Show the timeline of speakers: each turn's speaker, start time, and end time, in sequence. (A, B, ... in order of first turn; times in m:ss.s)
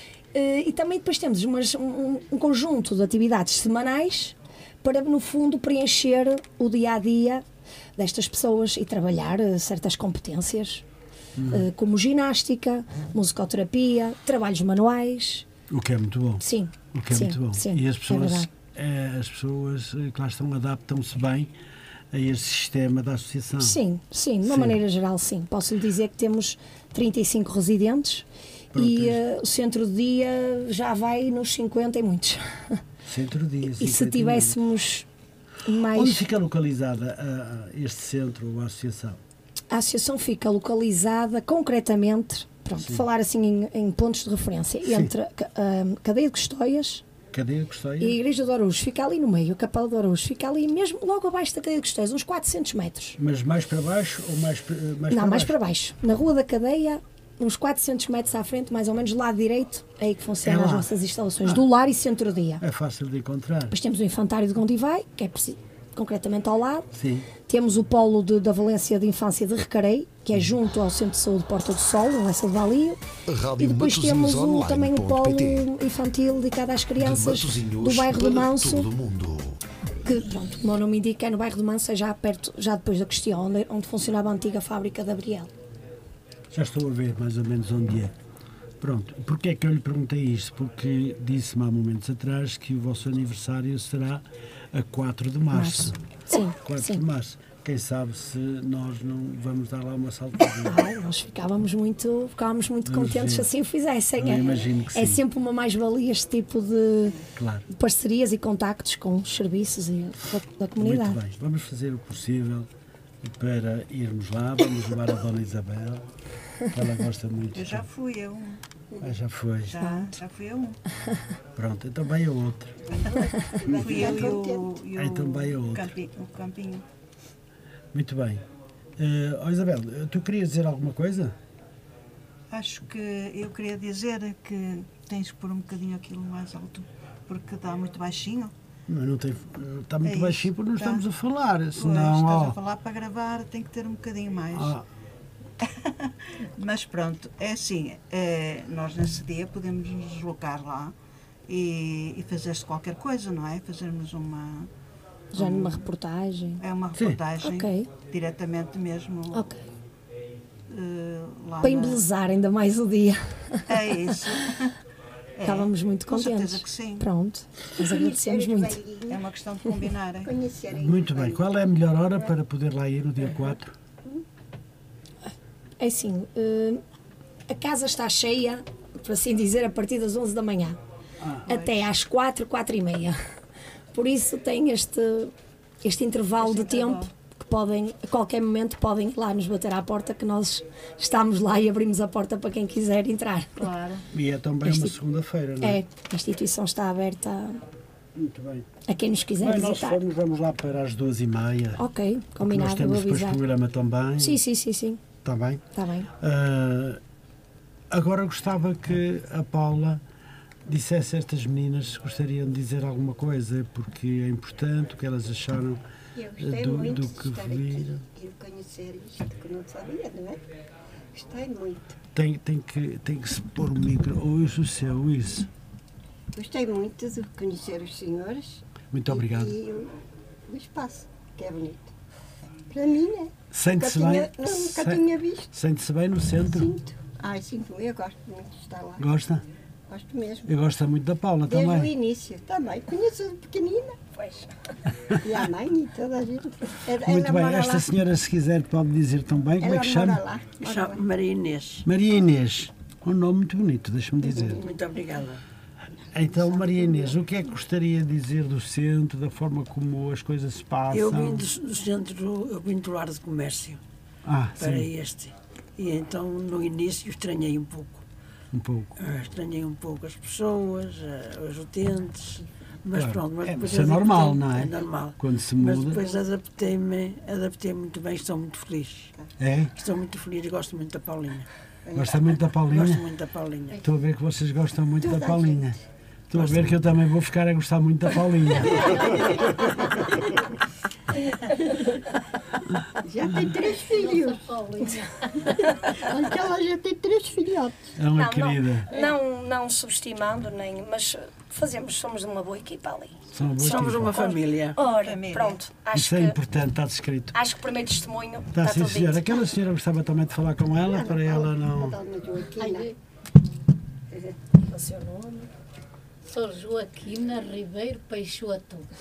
0:00.3-0:07.4 A
0:08.0-0:10.8 A
0:11.4-0:11.7 B
0:11.5-0:15.5 A
0:15.7-0:21.5 B
0:16.4-0:18.5 A
0:22.1-0:23.8 B
0:23.6-0:32.8 A
0:24.4-0:24.8 B
0:28.7-0:29.2 B
0:33.1-0:34.6 B
0:33.7-0:35.1 A
0:35.6-0:36.2 A
0:35.9-0:39.2 B
0:39.7-0:47.0 A
0:44.8-0:45.1 B
0:47.3-0:48.2 B
0:48.0-0:53.2 A
0:53.2-0:55.6 B
0:55.1-1:02.6 A
1:00.4-1:00.9 B
1:02.6-1:03.8 B
1:03.7-1:06.9 A
1:07.0-1:07.3 B
1:07.5-1:13.0 A
1:13.3-1:15.7 C
1:13.6-1:18.9 A
1:17.0-1:19.6 C
1:20.0-1:25.5 A
1:26.5-1:28.1 B
1:28.8-1:36.0 B
1:35.5-1:37.0 A
1:36.6-1:40.8 B
1:40.6-1:47.2 A
1:42.8-1:43.5 B
1:44.2-1:45.2 B
1:47.4-1:47.7 B
1:47.7-1:51.2 A
1:50.8-1:52.7 B
1:53.2-1:56.0 B
1:56.7-1:57.9 B
1:57.5-1:58.6 D
1:59.0-1:59.8 B
1:59.7-2:00.8 D
1:59.8-2:00.1 A
2:01.6-2:02.8 B
2:02.9-2:04.8 E
2:03.7-2:06.8 D
2:03.7-2:04.2 B
2:05.0-2:05.9 B
2:07.9-2:08.4 B
2:09.0-2:11.4 B
2:12.5-2:18.5 D
2:18.9-2:22.6 B
2:20.0-2:21.0 D
2:21.8-2:24.8 D
2:24.5-2:24.8 B
2:25.6-2:30.9 D
2:31.5-2:34.7 D
2:35.3-2:36.6 A
2:35.4-2:35.8 D
2:36.6-2:39.5 D
2:37.4-2:37.9 A
2:39.3-2:39.6 A
2:40.7-2:42.0 D
2:41.6-2:43.6 A
2:43.7-2:44.7 D
2:45.4-2:47.1 D
2:45.4-2:48.8 A
2:47.8-2:49.2 E
2:49.1-2:50.3 D
2:50.2-2:51.5 E
2:50.8-2:53.7 B
2:55.8-2:56.8 A
2:57.5-3:00.8 A
3:01.2-3:01.5 B
3:01.5-3:03.2 A
3:01.5-3:01.8 D
3:03.9-3:13.7 A
3:06.4-3:07.1 D
3:13.6-3:14.0 D
3:14.1-3:15.8 B
3:14.6-3:14.9 A
3:15.6-3:17.6 A
3:18.2-3:18.7 B
3:18.9-3:20.0 A
3:19.4-3:21.8 B
3:21.8-3:23.4 A
3:22.4-3:24.4 B
3:24.2-3:25.0 A
3:25.2-3:25.6 B
3:25.7-3:26.1 A
3:26.2-3:27.0 B
3:27.9-3:30.0 B
3:30.7-3:35.8 B
3:36.2-3:40.4 E
3:36.4-3:38.0 B
3:41.1-3:42.0 E
3:42.2-3:45.5 B
3:46.3-3:49.9 E
3:48.9-3:49.6 B
3:50.5-3:51.9 E
3:52.7-3:55.5 E
3:53.5-3:56.7 B
3:56.4-3:59.0 E
3:59.0-3:59.4 B
3:59.9-4:00.5 E
4:00.5-4:01.9 B
4:01.4-4:04.5 E
4:05.2-4:07.9 E
4:07.0-4:10.2 B
4:09.6-4:11.0 E
4:10.6-4:11.8 F
4:11.8-4:14.6 B
4:14.5-4:15.4 F
4:16.1-4:21.5 B
4:16.2-4:17.2 E
4:20.9-4:23.8 F
4:24.2-4:24.9 B
4:24.6-4:28.0 F
4:28.5-4:29.0 B
4:29.0-4:39.1 F
4:32.9-4:36.0 B
4:39.4-4:39.7 B
4:39.7-4:41.5 F
4:41.9-4:42.3 E
4:42.0-4:43.0 B
4:42.7-4:43.8 F
4:43.8-4:45.8 B
4:45.0-4:45.7 E
4:46.3-4:49.2 B
4:46.4-4:46.7 F
4:48.8-4:50.1 E
4:51.5-4:51.9 E
4:53.0-4:54.5 E
4:53.8-4:55.6 G
4:55.6-4:57.9 E
4:58.0-4:58.9 B
4:58.2-5:06.4 A
5:03.3-5:04.3 B
5:03.6-5:04.8 F
5:04.9-5:05.6 D
5:05.9-5:07.4 B
5:07.3-5:09.5 A
5:08.5-5:12.0 B
5:10.8-5:12.9 E
5:12.6-5:12.9 G
5:14.5-5:15.5 A
5:16.3-5:18.9 G